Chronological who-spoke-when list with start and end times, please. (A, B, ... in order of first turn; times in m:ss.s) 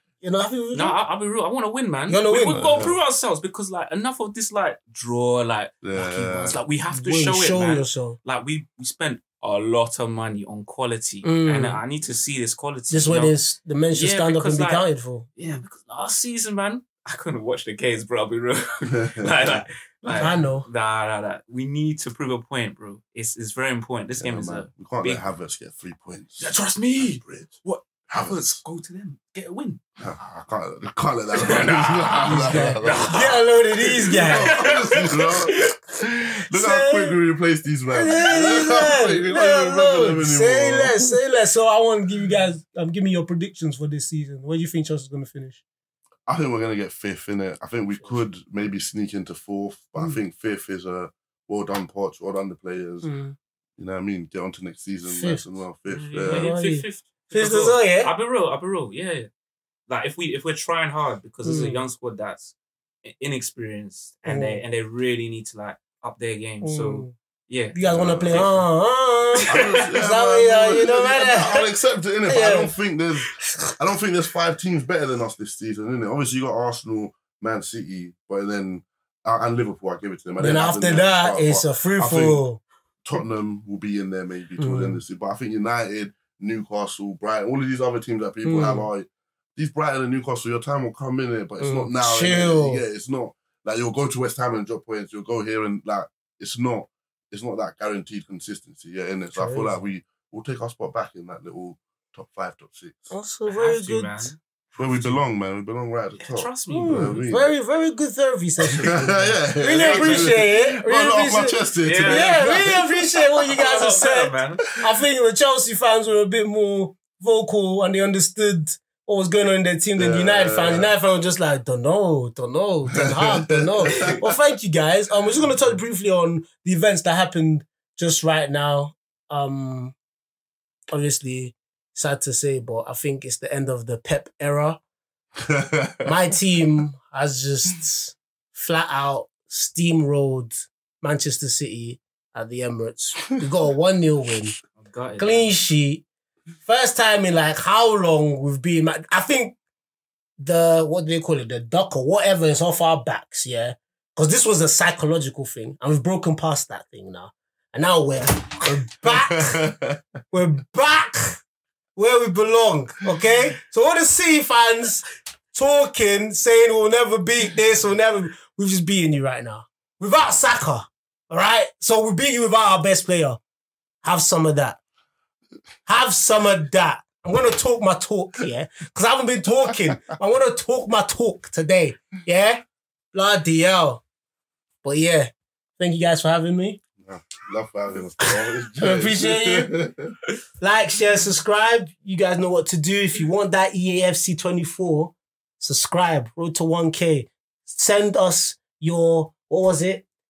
0:00.2-0:01.0 A
0:00.7-0:13.3 B
0:02.1-0:02.9 A
0:02.5-0:03.0 C
0:05.8-0:06.6 C
0:06.5-0:08.2 A
0:11.2-0:11.8 A
0:12.9-0:15.3 A
0:13.9-0:14.8 B
0:15.4-0:25.2 B
0:18.9-0:20.3 C
0:20.2-0:20.7 A
0:24.2-0:27.5 C
0:26.4-0:29.8 B
0:28.1-0:28.6 C
0:30.0-0:33.2 C
0:31.3-0:35.7 B
0:32.2-0:34.6 A
0:34.1-0:41.2 C
0:36.5-0:37.2 A
0:37.9-0:45.6 A
0:46.2-0:53.1 C
0:53.0-0:53.3 A
0:53.8-0:56.5 C
0:55.0-0:55.5 A
0:55.9-0:59.3 B
0:56.2-0:58.1 A
0:59.9-1:08.6 B
1:01.4-1:01.8 A
1:04.2-1:04.6 A
1:06.6-1:07.1 A
1:07.7-1:11.6 A
1:07.8-1:08.6 C
1:09.3-1:09.9 B
1:09.5-1:22.4 C
1:12.2-1:12.8 A
1:13.3-1:13.7 A
1:20.4-1:22.6 A
1:23.0-1:43.1 C
1:24.6-1:25.0 A
1:28.4-1:28.9 A
1:31.6-1:32.8 A
1:39.3-1:39.8 A
1:43.1-1:44.3 A
1:43.5-1:45.2 B
1:44.8-1:47.5 C
1:46.2-1:47.2 B
1:46.7-2:09.9 A
1:48.7-1:53.6 C
1:49.7-1:50.5 B
1:51.8-1:52.6 B
1:53.5-1:54.6 B
2:00.0-2:00.9 C
2:02.9-2:04.4 C
2:10.9-2:14.8 A
2:15.4-2:16.1 C
2:16.0-2:24.6 A
2:24.8-2:25.5 B
2:25.2-2:26.0 A
2:26.6-2:29.6 A
2:30.4-2:39.6 A
2:38.6-2:40.0 C
2:40.3-2:41.4 A
2:42.0-2:53.4 A
2:54.0-2:54.8 A
2:55.8-3:04.0 A
3:04.8-3:06.8 A
3:07.0-3:10.1 C
3:08.2-3:09.7 A
3:10.6-3:20.0 A